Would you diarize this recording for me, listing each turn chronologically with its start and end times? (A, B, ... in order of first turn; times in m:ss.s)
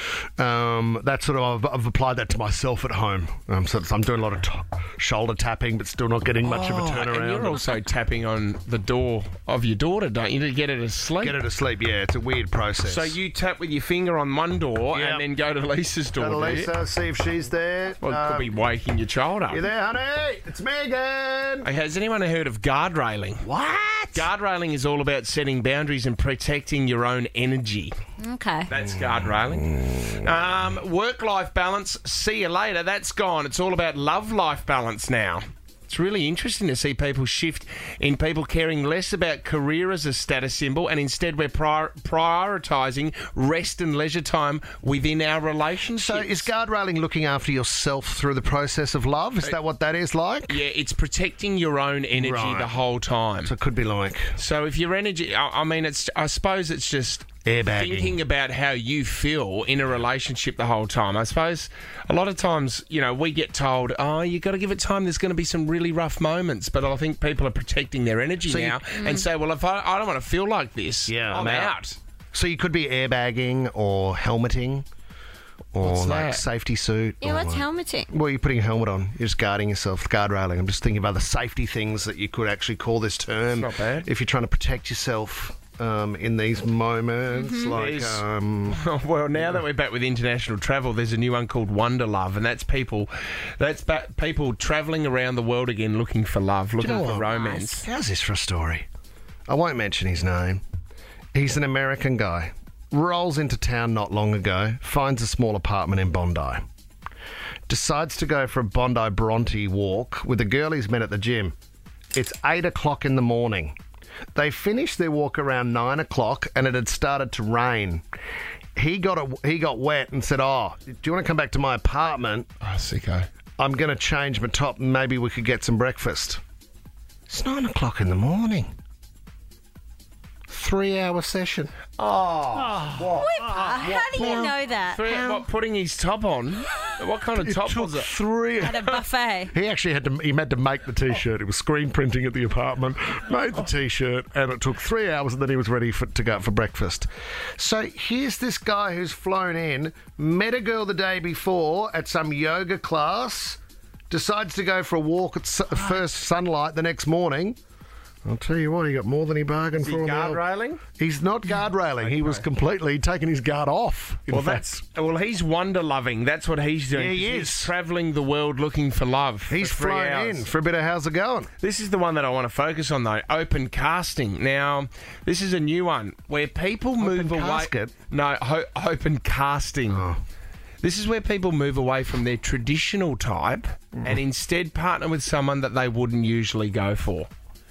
0:00.4-0:07.6 A
0:06.4-0:11.4 B
0:11.2-0:13.1 A
0:12.8-0:16.7 B
0:14.9-0:15.2 A
0:16.2-0:18.5 A
0:18.0-0:19.6 B
0:19.5-0:21.7 A
0:21.6-0:23.4 B
0:23.4-0:24.3 A
0:24.1-0:27.9 B
0:28.2-0:28.7 C
0:28.7-0:46.5 B
0:45.9-0:50.6 A
0:50.5-0:53.5 B
0:52.2-0:52.7 A
0:53.4-0:54.4 A
0:54.4-1:12.0 B
0:57.4-0:58.2 A
1:08.4-1:08.8 A
1:08.9-1:09.2 C
1:11.1-1:11.8 A
1:12.3-1:14.8 A
1:15.7-1:28.8 A
1:15.8-1:16.4 B
1:17.2-1:18.1 C
1:23.5-1:24.1 B
1:27.3-1:27.7 C
1:27.7-1:37.8 B
1:36.8-1:38.8 A
1:37.2-1:37.7 C
1:39.5-1:40.6 A
1:41.3-1:46.6 A
1:47.7-1:51.5 A
1:52.1-1:53.8 A
1:54.3-1:58.0 A
1:58.8-2:02.5 A
2:02.6-2:03.3 B
2:03.6-2:06.4 A
2:07.3-2:08.7 A
2:10.5-2:13.1 A
2:12.0-2:18.1 B
2:13.1-2:15.3 C
2:13.8-2:14.5 A
2:15.1-2:15.4 A
2:17.4-2:18.9 A
2:18.6-2:19.5 C
2:19.5-2:37.6 A
2:35.7-2:36.0 B
2:38.2-2:40.4 A
2:39.8-2:40.8 B
2:41.0-2:44.8 A
2:42.0-2:42.4 B
2:44.3-2:50.5 B
2:46.9-2:47.7 A
2:49.5-2:51.5 A
2:51.6-3:00.0 B
2:57.0-2:57.9 A
2:59.9-3:00.2 A
3:00.8-3:07.3 B